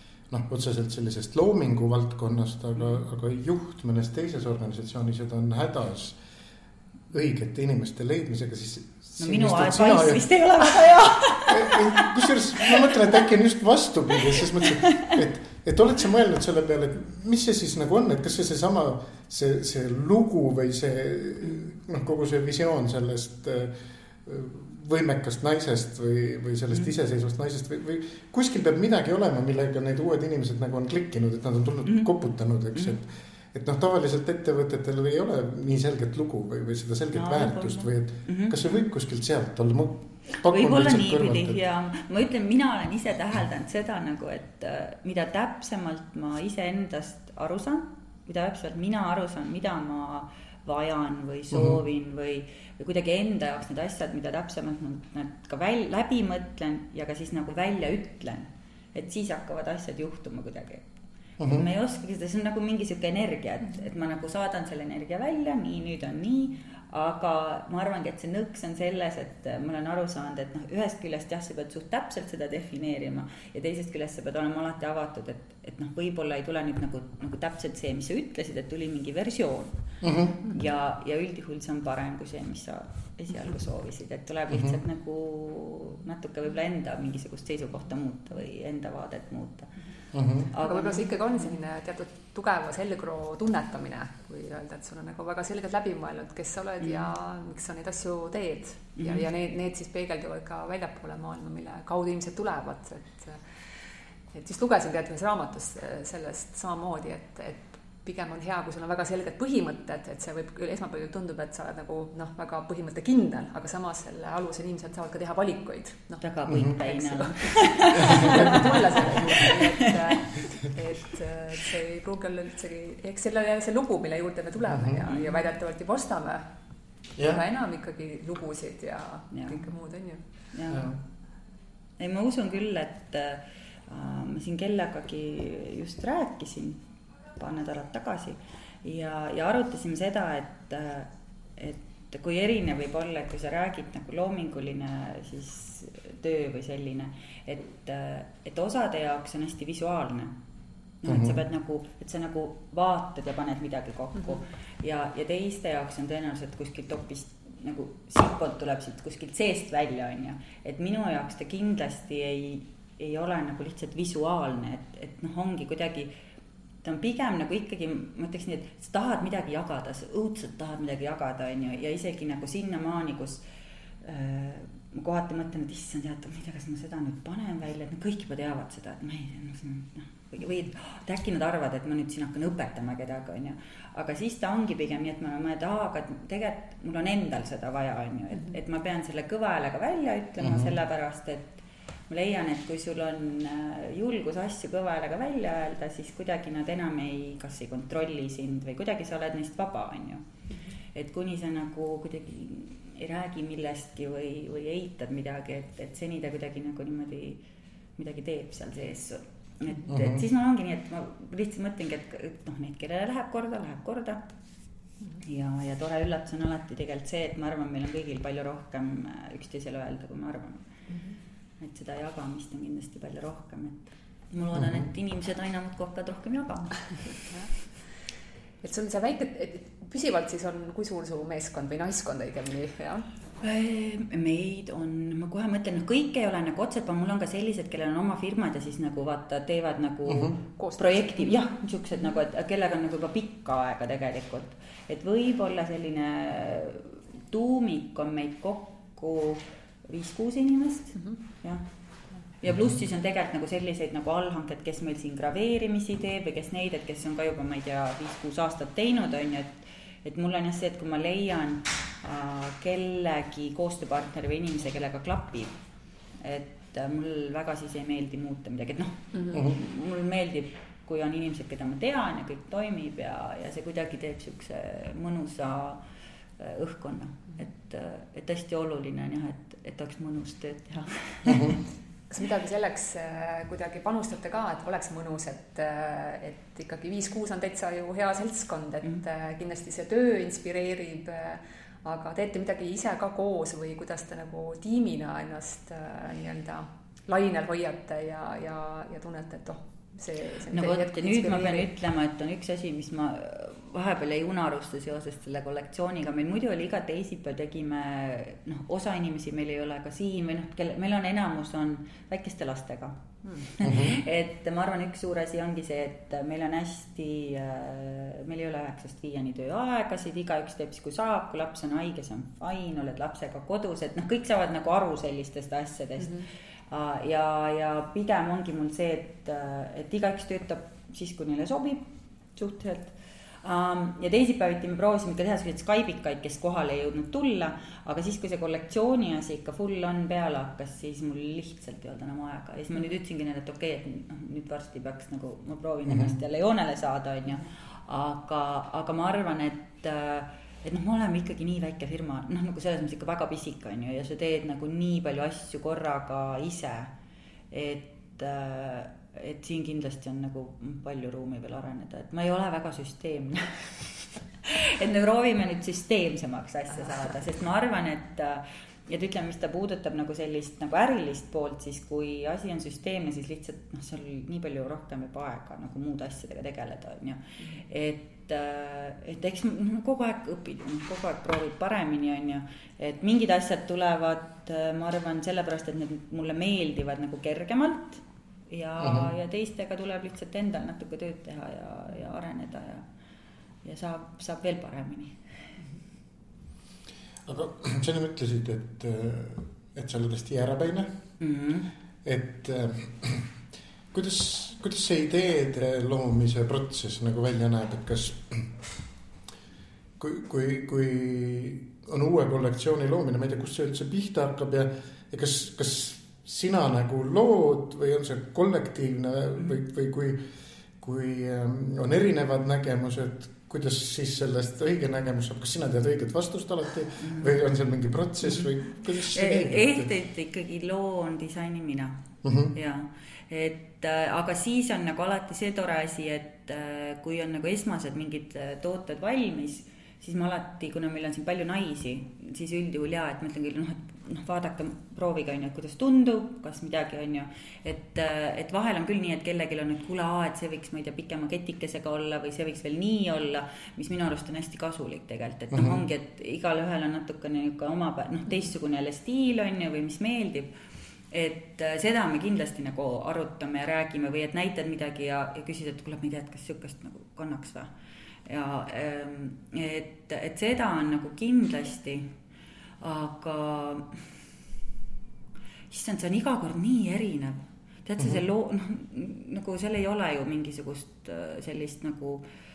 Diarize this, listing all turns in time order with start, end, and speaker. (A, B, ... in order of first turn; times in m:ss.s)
0:00.3-0:06.2 A
0:07.1-0:10.8 A
0:09.2-0:13.0 B
0:11.4-0:41.6 A
0:14.6-0:15.2 B
0:37.1-0:38.6 B
0:40.5-1:29.8 B
0:51.5-0:51.8 A
1:01.4-1:01.7 A
1:20.0-1:20.4 A
1:24.5-1:24.8 A
1:30.1-1:30.5 A
1:30.4-1:31.1 B
1:30.6-1:43.4 C
1:36.8-1:37.1 B
1:39.0-1:39.2 B
1:44.3-2:06.4 C
1:56.2-2:00.3 B
1:56.5-1:56.8 A
1:58.0-1:58.6 A
2:04.7-2:05.0 A
2:05.1-2:05.4 B
2:07.2-2:10.2 C
2:09.3-2:09.6 B
2:10.5-2:11.0 B
2:10.7-2:11.0 A
2:12.0-2:16.8 B
2:17.3-2:30.4 B
2:31.0-2:46.1 B
2:31.0-2:31.4 A
2:46.8-2:53.4 B
2:54.0-3:20.2 B
3:10.4-3:10.7 A
3:20.9-3:27.4 B
3:28.0-3:34.2 B
3:29.9-3:30.2 A
3:35.2-3:40.6 B
3:40.9-3:41.2 C
3:41.6-3:47.2 B
3:44.5-3:44.8 A
3:47.2-3:47.7 C
3:48.6-3:53.0 C
3:53.4-4:11.6 B
4:00.1-4:00.4 A
4:00.6-4:01.3 C
4:12.3-4:25.6 B
4:26.2-4:35.8 B
4:36.4-4:41.6 B
4:41.2-4:41.6 A
4:42.1-5:01.7 C
5:00.5-5:56.9 B
5:13.2-5:13.8 C
5:13.6-5:13.9 A
5:26.0-5:26.3 C
5:45.9-5:46.2 A
5:57.5-6:32.8 B
6:28.8-6:29.1 A
6:33.6-6:35.2 B
6:37.2-6:41.0 A
6:41.2-6:41.7 B
6:42.0-6:43.3 A
6:43.9-6:48.6 A
6:50.0-7:00.2 A
7:00.8-7:09.9 A
7:07.0-7:07.4 B
7:08.2-7:12.0 B
7:12.2-7:12.5 A
7:12.5-7:40.5 B
7:35.5-7:35.8 A
7:41.1-7:47.7 B
7:48.2-7:52.1 B
7:52.8-7:54.0 B
7:55.7-8:02.2 B